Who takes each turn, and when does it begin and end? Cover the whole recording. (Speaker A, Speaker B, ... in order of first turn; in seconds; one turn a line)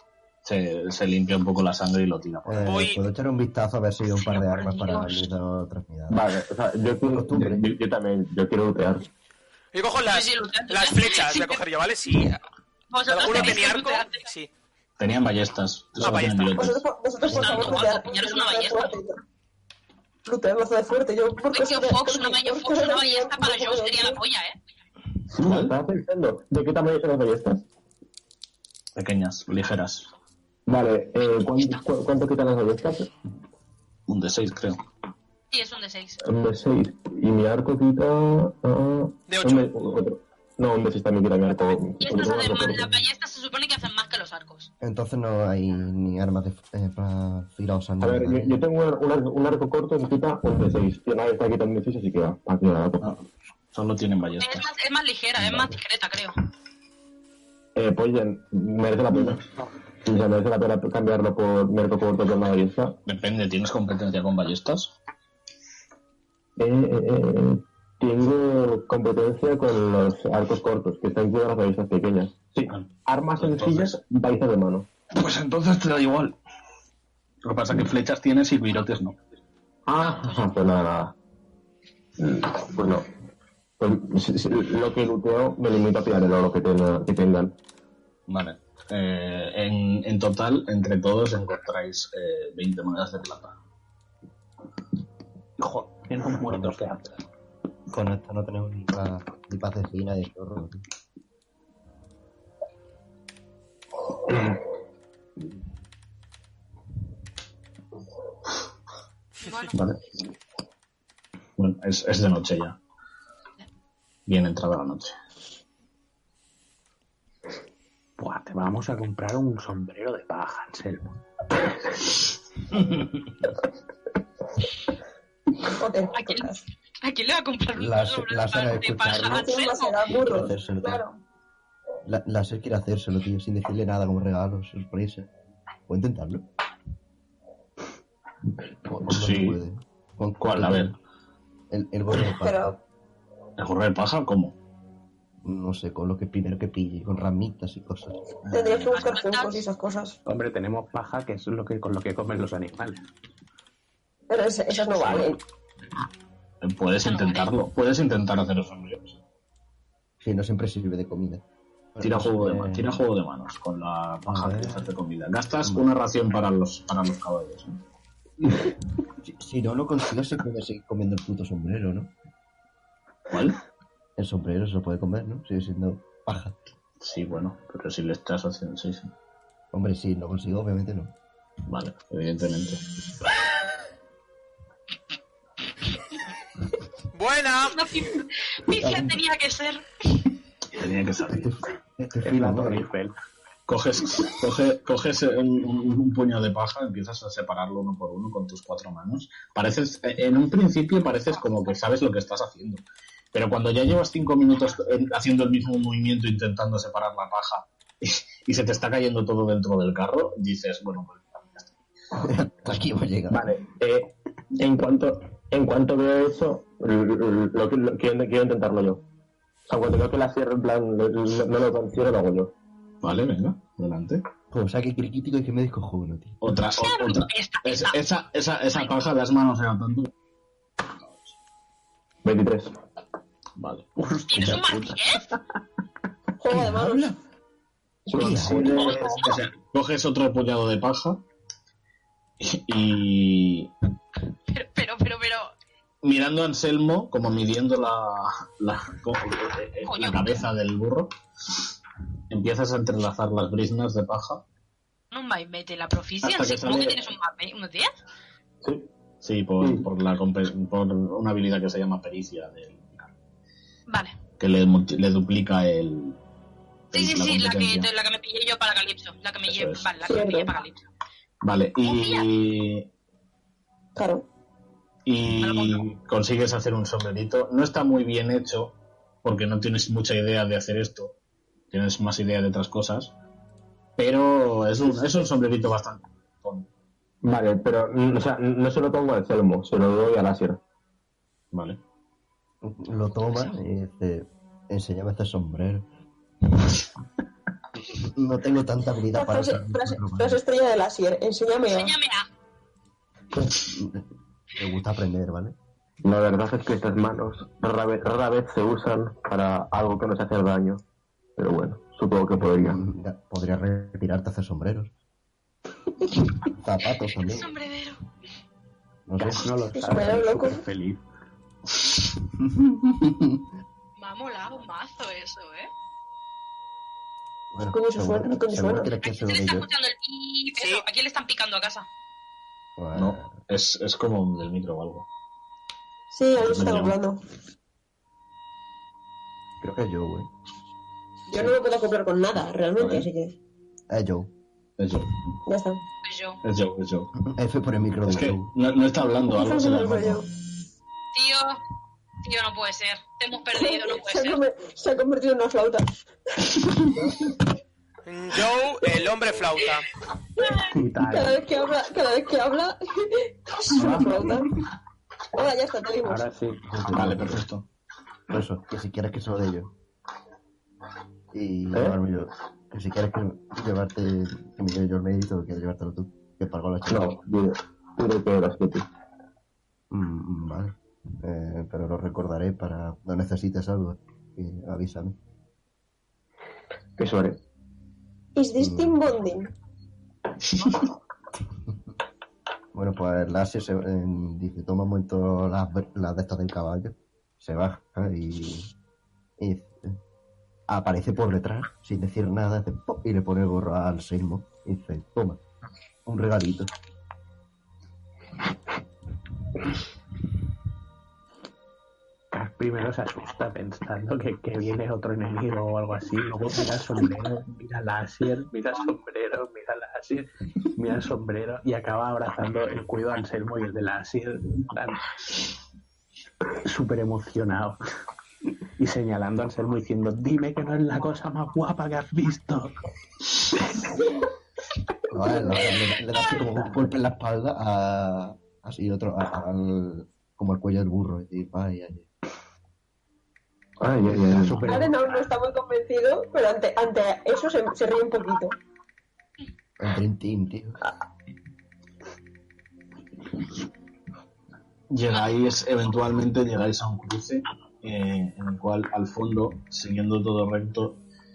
Speaker A: 0.5-2.8
Speaker B: 2.5-6.3
Speaker C: 2.6-3.0
Speaker D: 4.1-5.2
Speaker E: 6.1-9.1
Speaker B: 7.1-7.7
Speaker C: 9.7-12.4
Speaker D: 10.1-11.6
Speaker D: 12.9-14.2
Speaker C: 13.1-14.5
Speaker A: 15.0-16.8
Speaker C: 16.0-16.6
Speaker F: 16.6-19.2
Speaker D: 17.2-19.0
Speaker B: 17.3-17.8
Speaker F: 20.3-24.2
Speaker D: 21.5-24.6
Speaker E: 25.3-27.6
Speaker A: 25.4-25.7
Speaker A: 29.0-30.1
Speaker E: 30.7-33.1
Speaker D: 31.3-31.8
Speaker A: 34.1-34.8
Speaker D: 35.5-36.2
Speaker E: 36.2-43.0
Speaker C: 39.3-39.7
Speaker D: 41.9-44.7
Speaker B: 44.8-48.6
Speaker E: 48.0-53.1
Speaker A: 53.0-54.7
Speaker D: 54.4-56.4
Speaker B: 55.4-55.7
Speaker E: 57.8-59.5
Speaker E: 60.0-63.0
Speaker A: 63.0-64.9
Speaker E: 66.6-74.9
Speaker A: 72.7-74.0
Speaker A: 75.1-76.3
Speaker A: 77.4-79.2
Speaker E: 79.9-81.1
Speaker D: 80.0-80.6
Speaker E: 82.2-83.1
Speaker E: 83.8-87.5
Speaker A: 88.3-93.6
Speaker G: 95.6-97.2
Speaker B: 96.5-96.8
Speaker B: 97.9-100.8
Speaker D: 109.4-109.8
Speaker A: 109.7-110.0
Speaker A: 111.6-112.8
Speaker A: 114.3-115.2
Speaker G: 118.2-121.2
Speaker F: 125.8-126.6
Speaker D: 126.1-126.5
Speaker D: 127.0-130.2
Speaker B: 127.8-129.5
Speaker F: 129.3-131.2
Speaker B: 130.2-131.0
Speaker B: 132.1-135.3
Speaker B: 135.9-136.4
Speaker B: 138.8-141.0
Speaker A: 139.1-139.6
Speaker A: 140.4-140.9
Speaker B: 141.7-142.8
Speaker F: 142.4-142.8
Speaker A: 143.6-144.6
Speaker B: 145.4-148.2
Speaker A: 148.4-148.9
Speaker F: 148.5-150.2
Speaker D: 148.9-149.7
Speaker G: 150.3-153.1
Speaker F: 154.3-155.4
Speaker A: 154.9-155.3
Speaker A: 156.6-159.2
Speaker D: 157.0-157.5
Speaker B: 160.2-161.4
Speaker B: 161.9-162.9
Speaker A: 162.0-167.8
Speaker B: 164.3-164.9
Speaker B: 169.2-172.1
Speaker A: 173.3-173.6
Speaker B: 174.2-176.6
Speaker A: 177.0-179.1
Speaker B: 179.7-181.1
Speaker A: 181.7-182.8
Speaker C: 187.1-187.8
Speaker D: 187.6-189.8
Speaker B: 188.7-189.2
Speaker A: 190.7-191.5
Speaker B: 191.3-192.8
Speaker G: 192.2-193.1
Speaker A: 193.7-211.8
Speaker B: 212.2-213.6
Speaker E: 213.3-219.0
Speaker E: 219.7-222.5
Speaker A: 223.0-224.2
Speaker B: 224.5-226.4
Speaker A: 226.4-230.1
Speaker D: 226.7-228.0
Speaker E: 232.2-232.8
Speaker A: 233.6-233.9
Speaker G: 234.0-235.1
Speaker D: 234.3-235.3
Speaker F: 236.4-237.1
Speaker B: 236.5-237.2
Speaker E: 238.1-239.1
Speaker B: 238.1-238.9
Speaker A: 238.2-241.2
Speaker D: 238.8-239.3
Speaker A: 242.4-243.7
Speaker D: 244.5-245.5
Speaker A: 246.0-251.1
Speaker D: 249.9-250.4
Speaker A: 252.3-254.4
Speaker D: 255.1-257.9
Speaker A: 256.2-257.0
Speaker E: 258.6-258.9
Speaker A: 259.2-263.1
Speaker E: 259.6-259.9
Speaker D: 263.9-264.2
Speaker A: 264.4-266.2
Speaker A: 266.9-267.9
Speaker D: 266.9-270.8
Speaker A: 269.5-269.9
Speaker F: 270.1-270.5
Speaker A: 271.4-272.9
Speaker D: 271.8-272.3
Speaker F: 274.0-274.3
Speaker A: 275.1-281.2
Speaker D: 275.4-275.8
Speaker A: 281.7-283.1
Speaker A: 284.0-286.7
Speaker E: 287.2-290.6
Speaker A: 291.5-291.8
Speaker B: 292.6-295.9
Speaker D: 293.1-293.6
Speaker B: 297.8-300.4
Speaker F: 299.1-301.9
Speaker D: 301.7-302.3
Speaker B: 303.6-304.0
Speaker B: 304.6-305.6
Speaker E: 306.0-310.8
Speaker E: 311.4-312.8
Speaker B: 312.4-314.9
Speaker B: 316.5-317.5
Speaker D: 317.1-318.0
Speaker B: 319.1-319.5
Speaker G: 319.2-321.0
Speaker F: 319.8-320.6
Speaker B: 322.4-323.4
Speaker D: 324.0-325.7
Speaker B: 327.5-329.7
Speaker F: 327.7-328.9
Speaker D: 329.0-331.9
Speaker C: 330.6-330.8
Speaker B: 332.8-333.4
Speaker A: 332.9-335.1
Speaker F: 336.1-337.2
Speaker A: 336.4-336.9
Speaker B: 339.6-340.3
Speaker B: 341.3-341.6
Speaker F: 341.3-343.4
Speaker A: 342.8-343.1
Speaker B: 343.9-344.3
Speaker A: 344.8-345.3
Speaker F: 345.5-345.8
Speaker D: 346.0-346.4
Speaker A: 346.4-347.1
Speaker B: 347.2-348.5
Speaker A: 348.1-350.2
Speaker F: 349.3-350.3
Speaker D: 351.1-351.6
Speaker D: 352.2-354.4
Speaker F: 353.5-355.9
Speaker F: 356.4-357.3
Speaker C: 358.1-359.9
Speaker F: 360.4-364.5
Speaker G: 360.7-361.4
Speaker A: 363.7-364.3
Speaker F: 365.3-366.3
Speaker G: 366.0-366.6
Speaker B: 366.7-367.4
Speaker A: 366.9-367.7
Speaker B: 368.3-369.7
Speaker B: 371.3-377.2
Speaker E: 376.9-378.9
Speaker B: 379.9-385.2
Speaker E: 387.0-387.4
Speaker F: 388.4-389.5
Speaker B: 388.6-389.0
Speaker A: 390.5-390.8
Speaker B: 392.7-398.7
Speaker B: 399.4-400.0
Speaker B: 400.7-405.4
Speaker B: 406.1-406.7
Speaker G: 412.3-425.0
Speaker G: 426.6-427.8
Speaker G: 428.8-432.8
Speaker B: 435.1-442.1
Speaker E: 443.8-444.6
Speaker G: 444.1-445.1
Speaker B: 444.3-444.6
Speaker F: 444.7-448.6
Speaker B: 449.8-450.8
Speaker A: 454.9-461.0